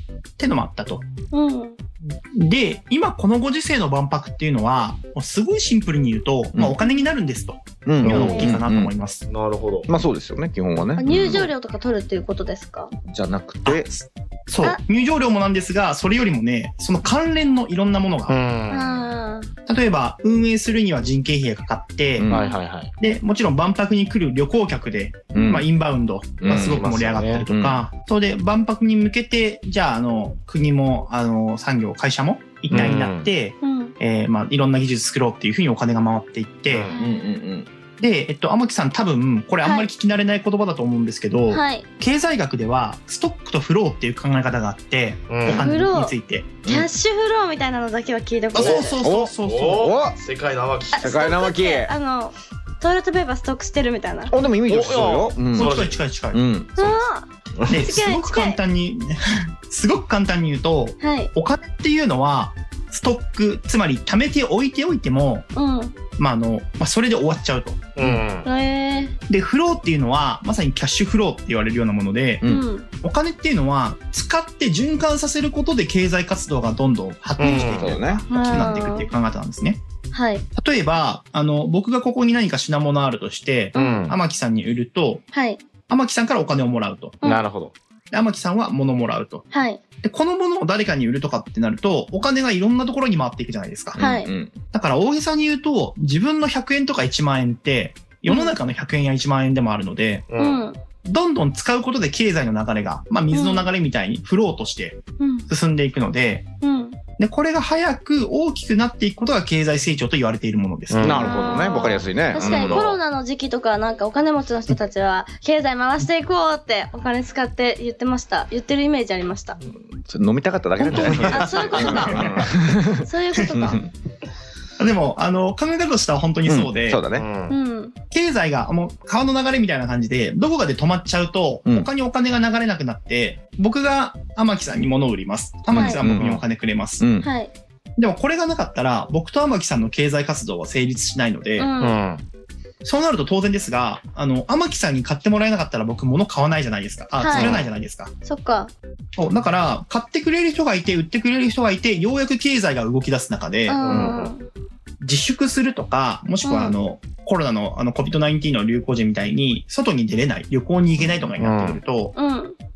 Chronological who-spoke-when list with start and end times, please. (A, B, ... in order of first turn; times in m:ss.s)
0:00.4-0:01.0 A
0:01.3-0:01.8 B
0:02.3-0:09.2 A
0:07.9-0:08.9 C
0:08.0-0:08.6 B
0:09.3-0:09.9 D
0:09.9-0:11.5 C
0:11.0-0:12.9 B
0:13.0-0:13.9 C
0:13.6-0:18.4 A
0:18.3-0:19.1 D
0:18.7-0:19.5 B
0:19.7-0:22.3 A
0:22.2-0:22.5 C
0:22.3-0:22.9 D
0:23.0-0:36.9 A
0:25.3-0:25.6 C
0:26.4-0:27.5 D
0:27.5-0:27.8 C
0:32.7-0:33.3 D
0:33.6-0:33.9 B
0:36.7-0:36.9 D
0:36.9-0:37.3 B
0:36.9-0:37.7 C
0:38.0-0:46.5 A
0:39.6-0:39.9 B
0:41.5-0:41.9 B
0:45.3-0:45.7 D
0:45.5-0:49.0 B
0:46.6-0:46.9 C
0:48.5-0:50.0 A
0:48.6-0:48.9 D
0:49.0-0:50.2 C
0:49.4-0:51.1 D
0:50.9-0:51.9 C
0:50.9-0:54.3 B
0:54.3-0:55.8 C
0:54.6-0:56.0 D
0:55.5-0:56.4 A
0:56.3-0:57.0 C
0:56.8-0:58.6 B
0:57.6-0:57.9 D
0:57.7-1:05.5 A
1:01.0-1:01.3 B
1:05.5-1:06.0 B
1:06.2-1:07.9 A
1:08.0-1:08.5 D
1:08.4-1:09.2 B
1:09.3-1:12.5 A
1:12.4-1:12.7 C
1:12.4-1:12.9 B
1:13.0-1:19.8 A
1:17.4-1:18.0 D
1:17.5-1:18.2 C
1:18.3-1:19.1 B
1:20.1-1:20.4 B
1:20.6-1:25.2 A
1:23.8-1:24.1 B
1:23.8-1:24.2 D
1:25.3-1:25.6 B
1:25.9-1:27.2 A
1:27.2-1:27.7 D
1:28.1-1:29.5 A
1:29.5-1:29.8 B
1:30.0-1:34.0 A
1:34.0-1:34.6 C
1:34.0-1:34.3 B
1:34.7-1:40.3 A
1:38.3-1:38.6 B
1:40.3-1:40.6 D
1:40.4-1:40.8 B
1:41.0-1:46.5 A
1:43.3-1:43.7 B
1:45.2-1:45.5 B
1:46.6-1:47.0 B
1:47.2-1:51.3 A
1:50.9-1:51.5 D
1:51.0-1:52.9 C
1:51.2-1:59.6 B
1:52.4-1:53.0 D
1:59.9-2:03.9 C
2:00.8-2:02.5 A
2:00.9-2:02.4 D
2:01.3-2:03.8 B
2:03.4-2:03.8 A
2:04.8-2:07.0 A
2:06.4-2:07.3 C
2:07.1-2:07.6 D
2:07.5-2:08.0 B
2:08.1-2:17.1 A
2:15.7-2:16.0 B
2:15.7-2:16.4 C
2:17.0-2:17.3 C
2:17.2-2:17.5 B
2:18.0-2:21.7 A
2:21.6-2:22.0 B
2:21.8-2:22.2 D
2:22.8-2:28.1 A
2:27.2-2:27.6 B
2:27.3-2:27.6 C
2:27.4-2:27.6 D
2:28.2-2:28.7 B
2:29.2-2:34.2 A
2:33.7-2:34.5 B
2:33.8-2:34.3 D
2:35.0-2:42.1 A
2:36.4-2:36.8 B
2:41.4-2:41.8 D
2:42.2-2:42.6 B